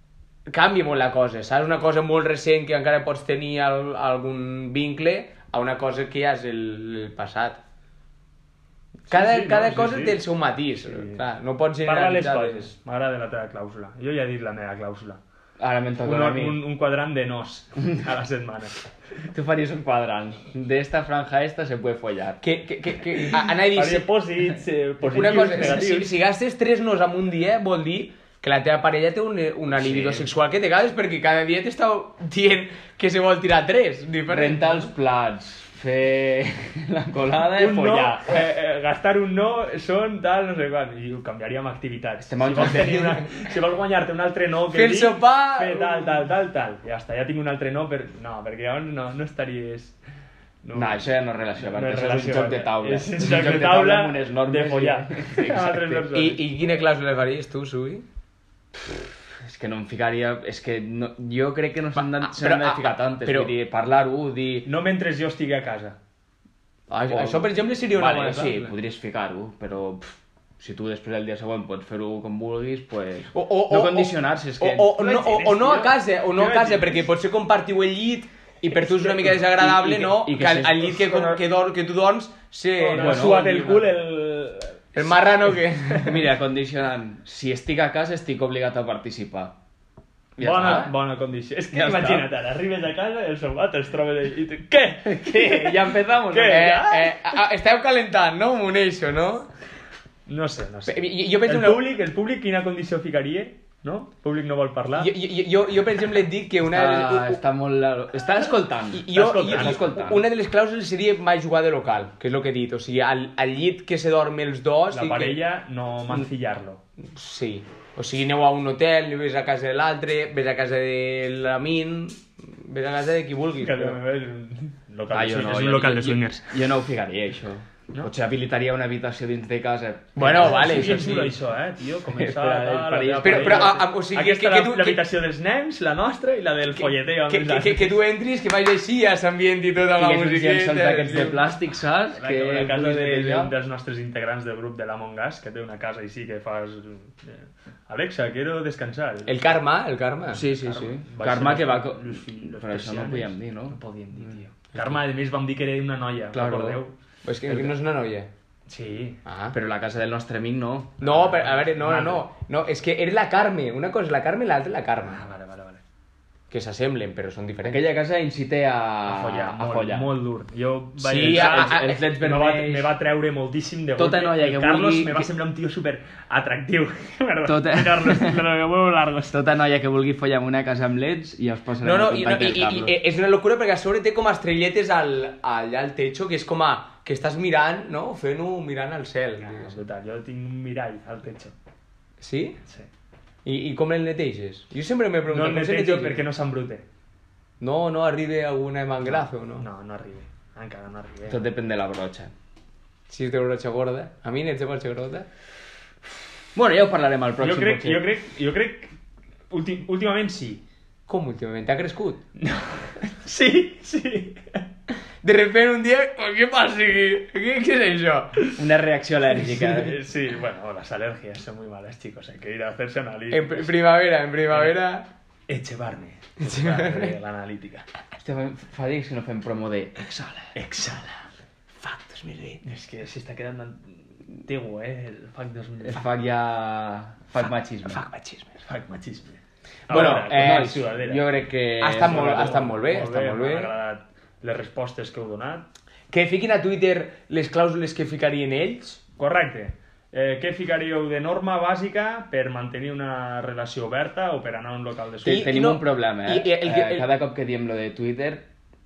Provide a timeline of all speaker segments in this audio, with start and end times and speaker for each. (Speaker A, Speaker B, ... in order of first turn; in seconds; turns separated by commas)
Speaker A: 0.5-7.6, Speaker A: 9.1-12.7, Speaker B: 9.1-10.2, Speaker B: 10.8-11.2, Speaker B: 11.8-15.2, Speaker C: 15.6-16.6, Speaker B: 16.0-18.8, Speaker C: 19.3-22.4, Speaker A: 22.4-24.1, Speaker B: 23.2-26.1, Speaker A: 25.1-34.9, Speaker C: 29.8-30.3, Speaker C: 34.3-38.3, Speaker B: 37.5-50.0, Speaker C: 42.3-43.2, Speaker A: 42.6-43.1, Speaker A: 44.7-46.1, Speaker B: 50.6-51.0, Speaker C: 50.7-56.1, Speaker B: 51.6-56.5, Speaker A: 56.1-58.0, Speaker C: 59.4-64.7, Speaker A: 62.0-63.5, Speaker B: 64.7-66.0, Speaker A: 66.9-68.7, Speaker C: 67.1-75.0, Speaker A: 73.3-83.9, Speaker B: 75.0-77.1, Speaker C: 79.6-81.4, Speaker B: 82.8-85.5, Speaker C: 83.0-83.4, Speaker A: 85.0-86.2, Speaker C: 86.0-89.6, Speaker C: 90.4-90.9, Speaker B: 90.4-97.2, Speaker C: 91.7-92.3, Speaker C: 95.0-96.7, Speaker A: 96.5-99.5, Speaker B: 100.3-105.1, Speaker A: 100.9-101.8, Speaker A: 105.0-107.4, Speaker C: 106.6-110.3, Speaker A: 108.9-115.4, Speaker B: 109.1-109.8, Speaker B: 114.9-116.8, Speaker A: 117.0-124.0, Speaker B: 123.6-126.5, Speaker C: 125.1-131.3, Speaker A: 130.2-131.3, Speaker B: 130.3-138.0, Speaker C: 132.2-133.8, Speaker A: 133.1-135.0, Speaker A: 136.8-141.4, Speaker C: 139.9-143.5, Speaker B: 142.1-149.3, Speaker A: 149.3-151.0, Speaker C: 150.3-154.9, Speaker B: 151.0-156.9, Speaker C: 156.3-156.8, Speaker A: 157.2-158.3, Speaker C: 157.5-157.7, Speaker B: 158.7-159.2, Speaker A: 159.2-159.6, Speaker C: 159.5-161.0, Speaker B: 161.0-162.3, Speaker A: 161.0-165.2, Speaker B: 165.0-165.8, Speaker A: 166.5-167.8, Speaker C: 167.6-170.1, Speaker B: 169.1-179.4, Speaker A: 171.0-172.0, Speaker C: 171.1-172.9, Speaker C: 174.0-175.3, Speaker C: 177.5-178.5, Speaker C: 179.3-183.0, Speaker A: 181.8-189.8, Speaker B: 189.4-191.6, Speaker A: 192.2-192.6, Speaker A: 193.4-196.2, Speaker B: 195.3-196.8, Speaker A: 197.6-199.6, Speaker B: 199.6-201.4, Speaker C: 201.3-202.3, Speaker A: 203.1-205.3, Speaker C: 206.6-208.1, Speaker B: 207.4-208.9, Speaker B: 209.5-210.6, Speaker A: 211.1-212.2, Speaker B: 212.4-214.6, Speaker A: 215.2-218.5, Speaker C: 218.6-220.0, Speaker B: 219.4-223.8, Speaker A: 223.3-225.1, Speaker B: 224.5-224.8, Speaker B: 225.5-227.8, Speaker A: 226.4-227.1, Speaker C: 228.2-230.5, Speaker B: 230.6-231.3, Speaker A: 231.8-232.6, Speaker B: 232.6-236.0, Speaker C: 235.8-238.0, Speaker A: 237.8-238.6, Speaker B: 238.6-241.2, Speaker A: 239.9-240.8, Speaker C: 239.9-242.7, Speaker A: 241.8-243.7, Speaker B: 241.9-245.7, Speaker A: 246.1-249.0, Speaker B: 249.2-255.6, Speaker C: 255.2-258.5, Speaker A: 255.2-257.1